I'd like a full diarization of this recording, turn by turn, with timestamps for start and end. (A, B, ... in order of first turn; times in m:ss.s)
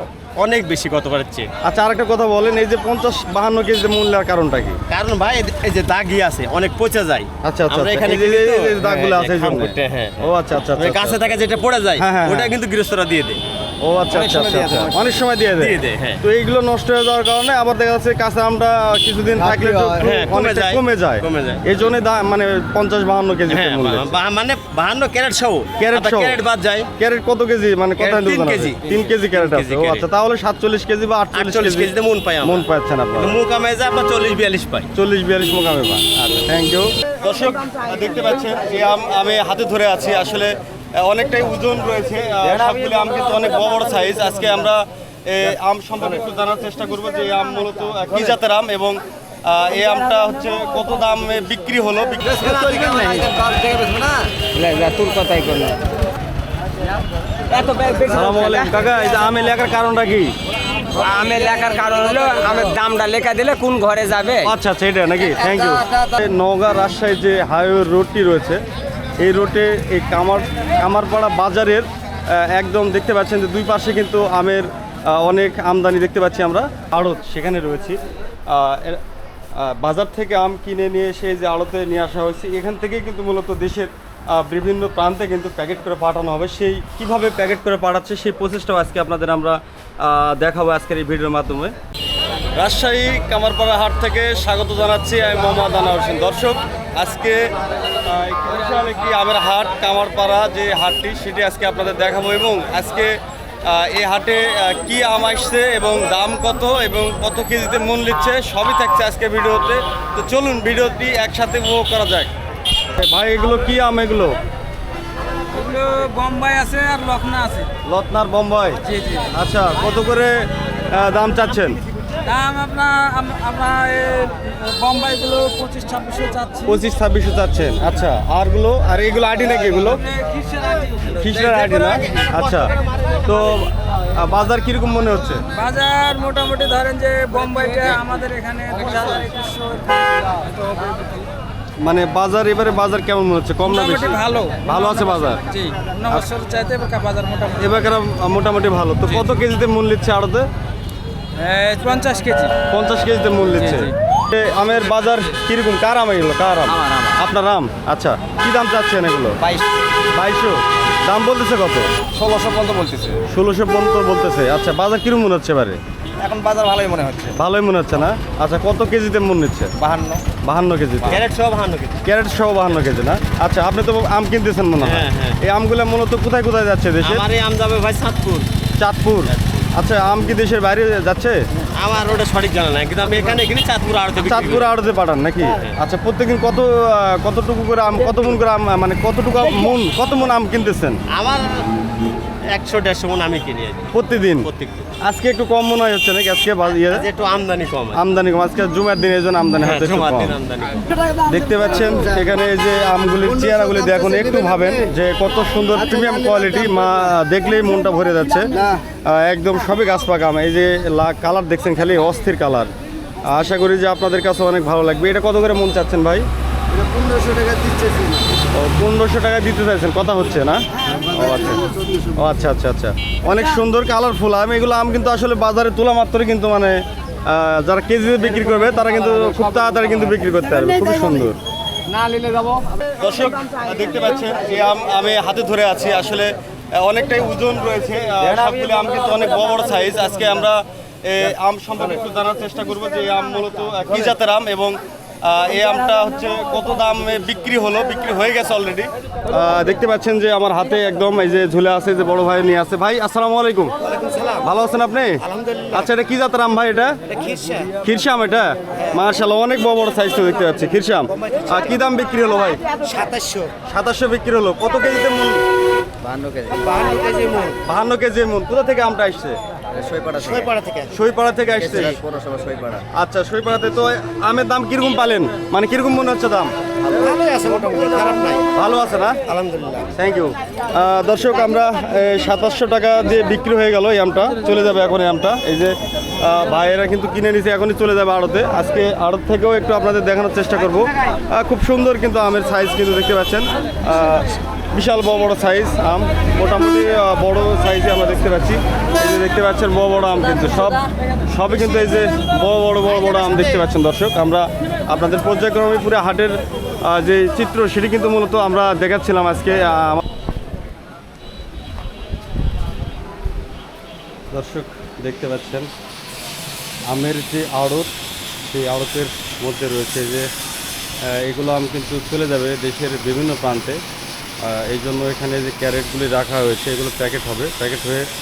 0:00.4-0:01.5 A
0:01.6-0:04.8 B
0:04.9-0:13.4 A
0:07.4-0:11.4 B
0:12.0-0:12.5 B
0:13.8-0:24.1 B
0:14.1-0:15.0 A
0:15.6-0:16.2 A
0:19.5-0:20.0 C
0:20.0-0:21.6 A
0:23.5-0:26.9 A
0:25.8-0:26.4 B
0:27.0-0:33.4 B
0:28.0-0:30.1 A
0:31.3-0:32.6 A
0:33.2-0:34.9 A
0:34.9-0:52.6 B
0:52.4-0:54.0 D
0:52.8-0:53.4 A
0:54.5-0:55.8 D
0:57.5-0:58.7 D
0:58.1-1:00.3 B
1:01.0-1:04.5 D
1:04.4-1:08.6 B
1:09.2-1:18.0 B
1:18.5-1:19.0 B
1:19.6-1:31.7 B
1:32.6-1:37.4 B
1:38.0-1:43.1 B
1:43.6-1:52.3 B
1:53.0-1:54.3 B
1:55.5-1:57.7 E
1:57.8-1:58.8 B
1:58.8-1:59.3 E
1:59.3-2:01.8 B
2:02.2-2:06.8 E
2:06.6-2:10.0 B
2:10.1-2:12.7 E
2:11.1-2:12.7 B
2:13.2-2:15.4 B
2:15.5-2:21.2 E
2:21.8-2:25.4 B
2:23.6-2:27.8 E
2:27.6-2:30.5 B
2:31.4-2:32.5 E
2:32.7-2:39.4 B
2:33.6-2:33.9 E
2:36.8-2:37.1 D
2:39.4-2:39.8 D
2:40.1-2:41.9 B
2:42.1-2:43.2 D
2:43.3-2:45.8 B
2:46.2-2:47.3 D
2:47.3-2:49.7 B
2:49.9-2:50.2 D
2:50.4-2:51.2 B
2:51.0-2:52.0 A
2:52.0-2:57.2 B
2:54.8-2:55.4 A
2:57.0-2:58.5 A
2:58.8-3:01.4 B
2:59.2-2:59.7 A
3:01.8-3:04.7 A
3:04.2-3:11.0 B
3:11.1-3:11.7 A
3:12.5-3:14.9 A
3:13.9-3:14.5 B
3:15.0-3:17.1 B
3:16.9-3:18.0 A
3:17.9-3:20.4 B
3:19.6-3:20.9 A
3:21.2-3:32.7 B
3:23.5-3:24.6 C
3:33.3-3:36.2 B
3:36.8-3:38.2 C
3:38.5-3:51.4 B
3:52.1-3:52.4 E
3:53.0-4:13.7 B
4:13.8-4:14.5 A
4:14.4-4:15.2 B
4:15.2-4:15.8 A
4:15.7-4:16.9 B
4:17.1-4:17.7 A
4:17.8-4:22.6 B
4:21.2-4:21.8 A
4:22.8-4:23.5 A
4:23.7-4:25.4 B
4:26.0-4:26.6 C
4:26.5-4:27.6 A
4:27.6-4:29.4 B
4:29.8-4:30.4 C
4:30.2-4:30.9 A
4:30.9-4:32.0 B
4:31.7-4:32.0 A
4:31.8-4:32.8 C
4:32.9-4:36.5 B
4:36.9-4:38.4 A
4:38.5-4:39.2 B
4:39.3-4:39.9 A
4:39.9-5:10.0 B
5:14.3-5:15.7 B
5:16.9-5:17.9 B
5:18.4-5:20.3 B
5:21.1-5:23.8 B
5:24.4-5:28.0 B